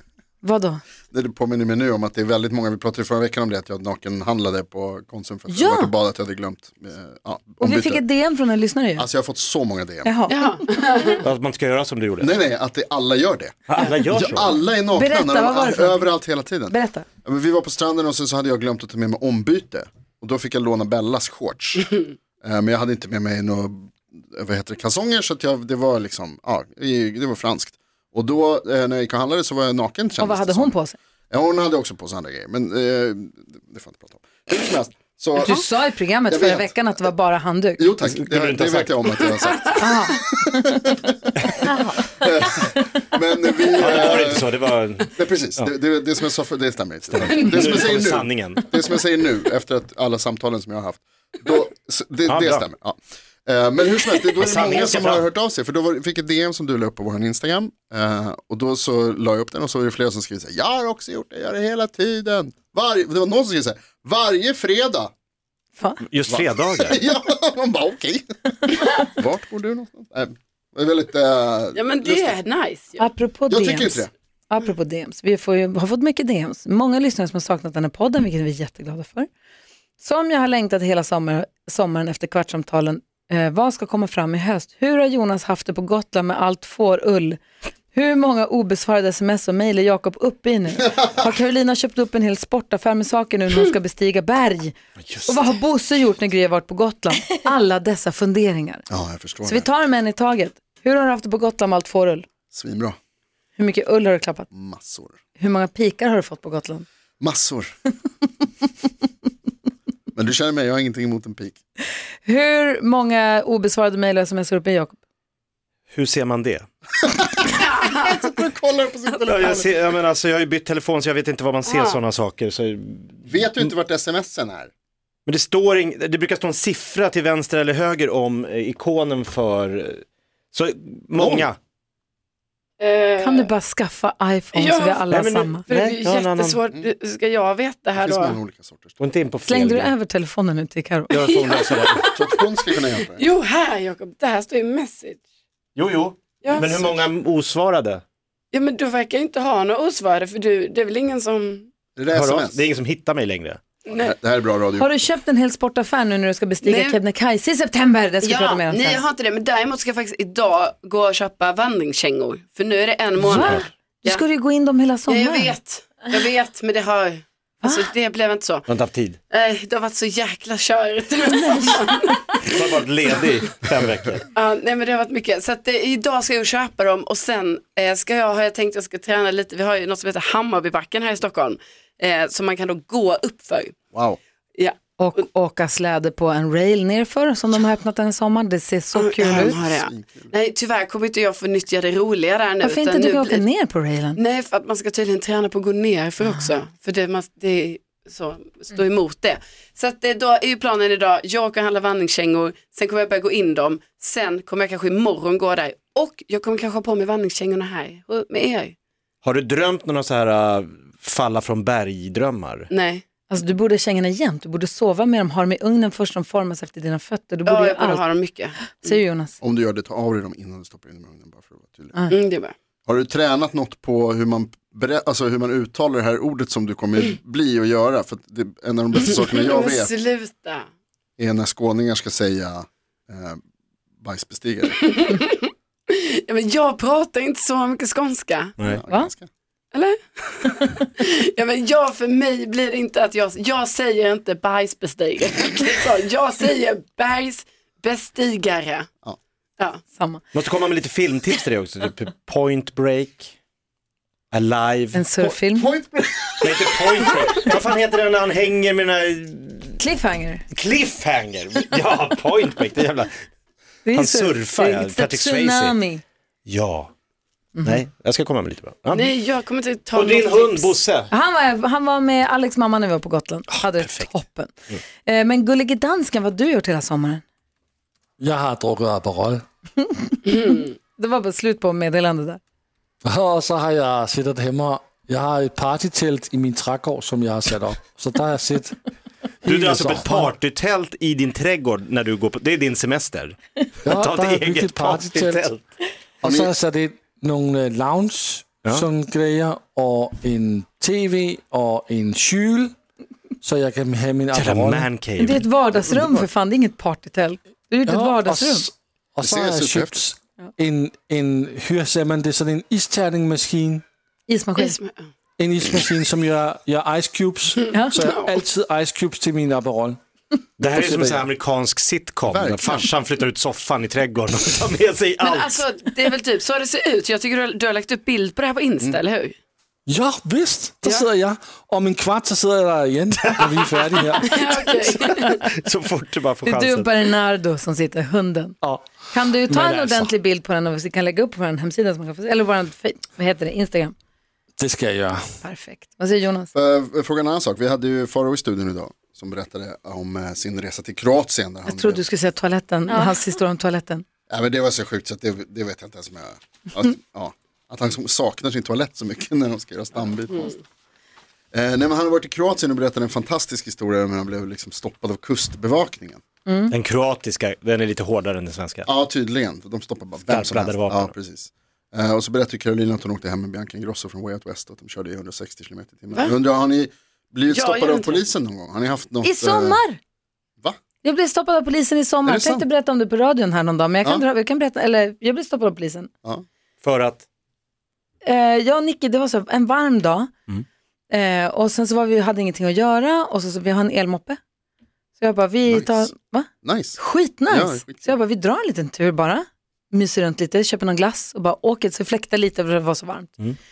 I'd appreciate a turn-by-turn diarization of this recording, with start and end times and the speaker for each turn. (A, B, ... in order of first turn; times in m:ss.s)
0:00.4-0:00.8 A
0:01.1-0:08.0 B
0:05.5-0:05.9 A
0:07.6-0:09.1 A
0:09.0-0:10.2 B
0:10.0-0:11.2 A
0:10.3-0:11.2 C
0:11.2-0:12.3 D
0:12.2-0:30.8 B
0:13.7-0:14.5 D
0:14.9-0:16.1 A
0:16.7-0:17.1 A
0:30.2-0:31.0 A
0:31.3-0:35.6 B
0:35.4-0:37.8 A
0:36.3-0:36.7 B
0:37.8-0:44.5 B
0:38.0-0:39.1 D
0:39.2-0:39.6 C
0:39.8-0:40.9 A
0:43.8-0:45.7 D
0:45.1-1:05.1 B
0:47.1-0:48.7 D
0:47.4-0:47.7 C
0:52.3-0:52.7 D
0:54.4-0:55.3 D
1:05.8-1:06.0 A
1:06.1-1:07.0 D
1:06.3-1:08.3 B
1:09.0-1:12.4 B
1:11.8-1:13.1 C
1:13.0-1:19.3 A
1:13.5-1:14.1 B
1:20.0-1:27.4 A
1:27.9-1:38.9 A
1:35.0-1:35.4 D
1:38.9-1:39.7 B
1:39.4-1:42.2 A
1:42.5-1:43.0 B
1:43.6-1:44.5 A
1:44.5-1:45.2 B
1:45.4-1:46.9 A
1:47.2-1:47.7 B
1:50.2-1:51.6 B
1:52.2-1:55.0 A
1:55.9-1:56.7 D
1:57.0-1:59.8 B
1:59.3-2:03.7 D
2:01.7-2:02.0 C
2:03.3-2:04.7 B
2:05.3-2:10.0 D
2:10.5-2:11.6 D
2:11.2-2:11.5 B
2:12.8-2:13.5 C
2:13.2-2:15.7 A
2:14.6-2:15.1 C
2:15.1-2:16.6 D
2:15.6-2:18.4 C
2:18.0-2:19.0 B
2:19.0-2:19.9 D
2:19.5-2:21.1 A
2:21.1-2:25.2 C
2:21.1-2:22.1 D
2:22.1-2:23.2 B
2:25.8-2:28.0 D
2:26.4-2:26.9 C
2:28.5-2:31.7 C
2:32.0-2:32.6 B
2:32.1-2:33.6 D
2:33.9-2:34.2 C
2:33.9-2:34.9 B
2:34.8-2:39.0 A
2:36.6-2:37.0 C
2:38.2-2:44.2 C
2:43.2-2:45.5 A
2:43.3-2:43.7 D
2:45.1-2:48.7 C
2:47.6-2:47.9 A
2:48.7-2:49.2 D
2:49.3-2:52.6 C
2:51.4-2:51.7 A
2:52.5-2:54.3 D
2:54.3-3:03.8 C
3:03.9-3:04.2 B
3:05.0-3:09.6 A
3:09.0-3:13.4 C
3:09.2-3:10.3 B
3:12.6-3:14.2 A
3:14.2-3:28.8 C
3:29.2-3:32.7 D
3:32.7-3:33.0 C
3:33.3-3:38.0 A
3:37.5-3:39.0 C
3:38.7-3:39.4 A
3:39.4-3:42.0 B
3:42.1-3:42.5 C
3:42.9-3:49.9 B
3:49.1-3:50.7 C
3:51.2-3:53.4 B
3:54.0-3:54.8 B
3:54.8-3:58.6 C
3:58.7-3:59.3 B
3:59.7-4:08.9 C
4:09.9-4:10.2 A
4:10.3-4:13.3 D
4:14.3-4:15.3 D
4:14.9-4:15.7 A
4:15.6-4:17.1 B
4:16.4-4:19.8 D
4:19.8-4:20.4 A
4:20.5-4:23.2 D
4:23.8-4:26.0 A
4:23.9-4:25.8 D
4:26.5-4:26.9 D
4:27.6-4:27.8 A
4:27.6-4:29.1 D
4:28.9-4:30.8 C
4:29.9-4:31.1 D
4:31.1-4:37.2 A
4:33.6-4:34.1 D
4:38.2-4:39.4 E
4:39.8-4:42.4 A
4:43.0-4:48.8 E
4:49.4-4:50.3 E
4:49.4-4:55.6 D
4:53.8-4:55.5 E
4:56.2-5:02.8 E
4:56.2-4:56.5 B
5:03.4-5:04.9 E
5:04.3-5:05.4 D
5:05.2-5:08.7 A
5:05.8-5:06.3 B
5:07.9-5:13.8 E
5:09.2-5:10.0 B
5:14.3-5:14.8 A
5:14.6-5:15.1 C
5:15.4-5:20.0 E
5:17.7-5:18.0 A
5:18.0-5:18.3 C
5:20.6-5:25.6 D
5:22.3-5:22.9 B
5:25.2-5:29.4 C
5:29.9-5:34.9 E
5:33.2-5:34.0 D
5:34.2-5:35.4 C
5:35.4-5:36.9 D
5:36.4-5:38.6 A
5:39.1-5:43.9 A
5:39.5-5:40.1 E
5:44.6-5:45.2 E
5:45.4-5:46.5 A
5:46.5-5:52.0 B
5:51.7-5:54.0 A
5:54.3-6:00.6 B
6:01.5-6:06.2 B
6:06.5-6:06.7 A
6:06.7-6:08.9 D
6:08.9-6:19.8 B
6:10.2-6:11.2 D
6:17.5-6:18.2 C
6:19.2-6:20.0 A
6:21.0-6:26.1 A
6:22.2-6:22.7 B
6:26.8-6:27.2 D
6:28.2-6:30.3 A
6:31.1-6:34.4 A
6:35.2-6:43.4 A
6:35.7-6:36.1 B
6:36.6-6:38.2 B